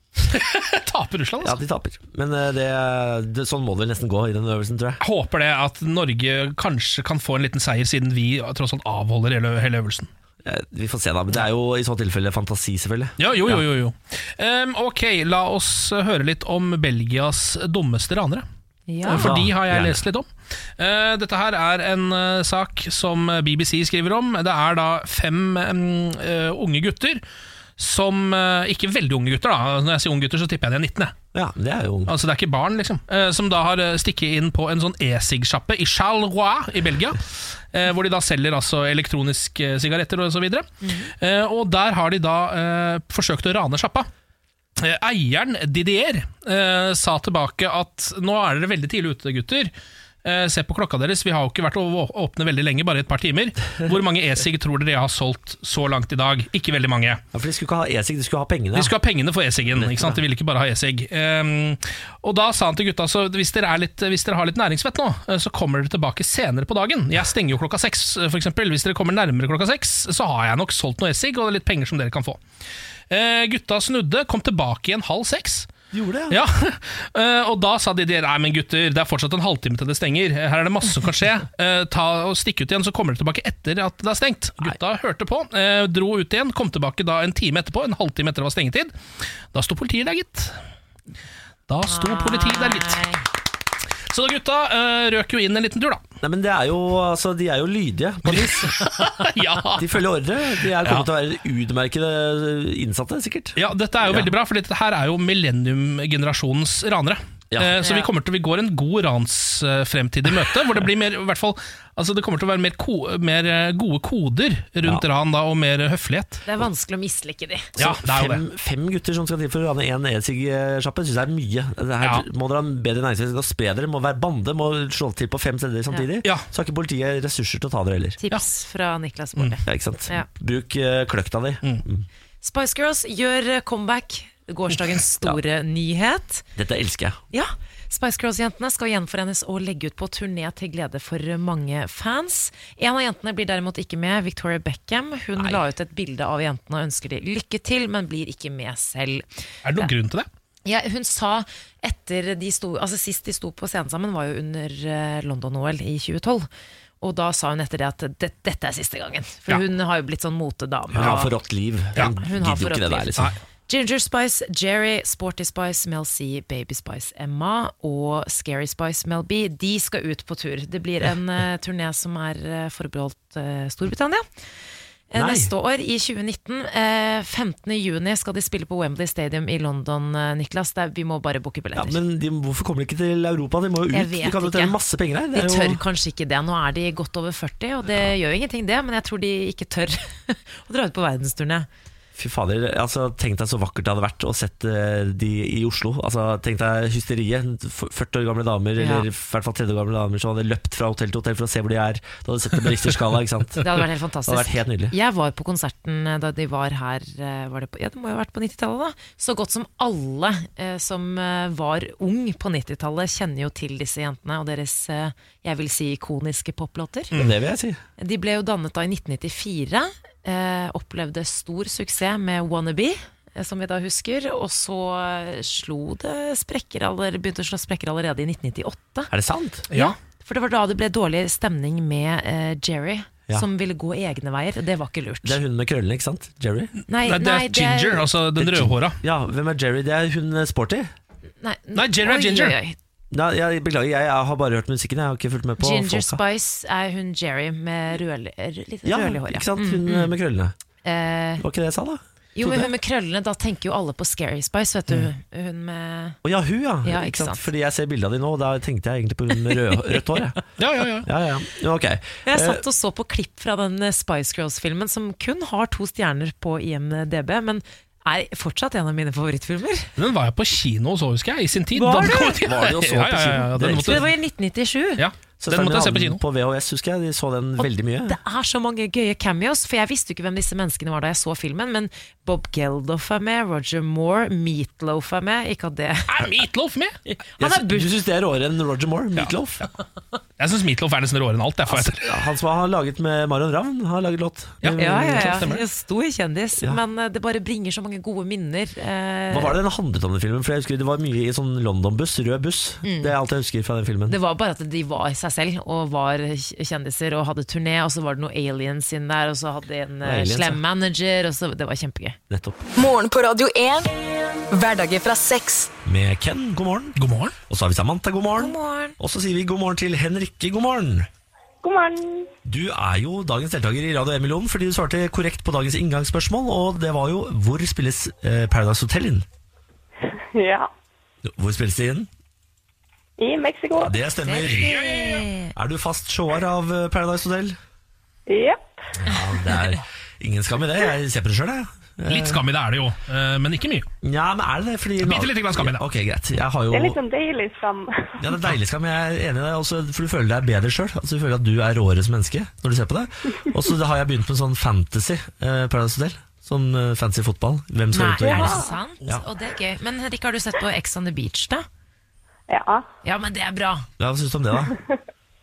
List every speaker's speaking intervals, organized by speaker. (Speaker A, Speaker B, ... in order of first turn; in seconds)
Speaker A: 0.3-1.6, 5.0-10.1, 13.2-18.4, 19.1-27.2, 27.8-31.1, 32.1-37.2, 37.7-40.7, 41.2-44.1, 44.8-49.7, 50.2-57.2, 58.8-72.4, 73.1-75.7, 76.3-88.9, 89.5-90.5, 91.7-93.0, 94.1-96.0, 98.3-100.0, 100.8-101.1, 103.6-116.5, 117.8-118.4, 149.6-150.3, 237.0-239.0, 241.8-242.6, 260.6-261.1, 270.0-274.1, 275.0-276.2, 286.1-287.0, 290.4-292.2, 294.6-295.6, 317.0-317.4, 334.6-335.2, 342.1-343.9, 345.0-345.8
Speaker B: 1.4-5.0, 10.4-13.6, 19.1-20.0, 31.3-32.1, 57.3-58.9, 59.7-60.2, 75.9-76.4, 96.2-98.8, 99.8-104.3, 107.5-107.8, 117.8-128.2, 129.7-132.1, 136.6-137.2, 145.4-145.6, 160.9-163.3, 175.2-175.5, 181.8-185.8, 192.2-204.9, 217.1-217.8, 229.1-229.7, 235.2-236.7, 238.4-240.9, 243.1-246.2, 248.8-250.5, 251.4-252.7, 256.2-260.4, 261.1-262.6, 271.9-274.1, 275.4-278.2, 287.4-289.6, 291.7-295.4, 299.3-304.2, 310.0-310.6, 312.3-312.6, 315.9-317.0, 317.5-321.1, 322.4-329.3, 331.2-332.1, 333.8-334.8, 335.6-337.6, 339.0-342.4, 344.0-347.0, 348.2-359.2, 364.0-364.8
Speaker C: 18.9-19.3, 40.8-41.1, 91.9-93.2, 107.8-108.1, 116.5-117.7, 128.2-130.3, 132.4-136.5, 137.3-149.3, 150.7-156.5, 157.0-161.3, 162.0-163.1, 163.7-174.2, 175.1-182.0, 183.9-184.8, 185.3-191.7, 198.8-199.1, 203.6-217.1, 218.0-229.1, 229.7-235.4, 236.9-238.1, 241.4-242.8, 245.6-250.1, 250.8-251.4, 252.4-256.2, 256.9-257.5, 262.3-269.9, 271.8-272.4, 273.9-275.0, 277.6-286.1, 287.1-287.9, 294.8-299.6, 302.8-303.1, 304.1-312.2, 318.4-319.0, 334.2-335.5, 357.9-361.7, 363.0-363.9
Speaker D: 312.8-313.9, 314.5-315.7
Speaker E: 321.6-322.3, 330.2-330.7, 333.2-333.9, 338.3-338.7, 346.7-348.2, 362.5-362.9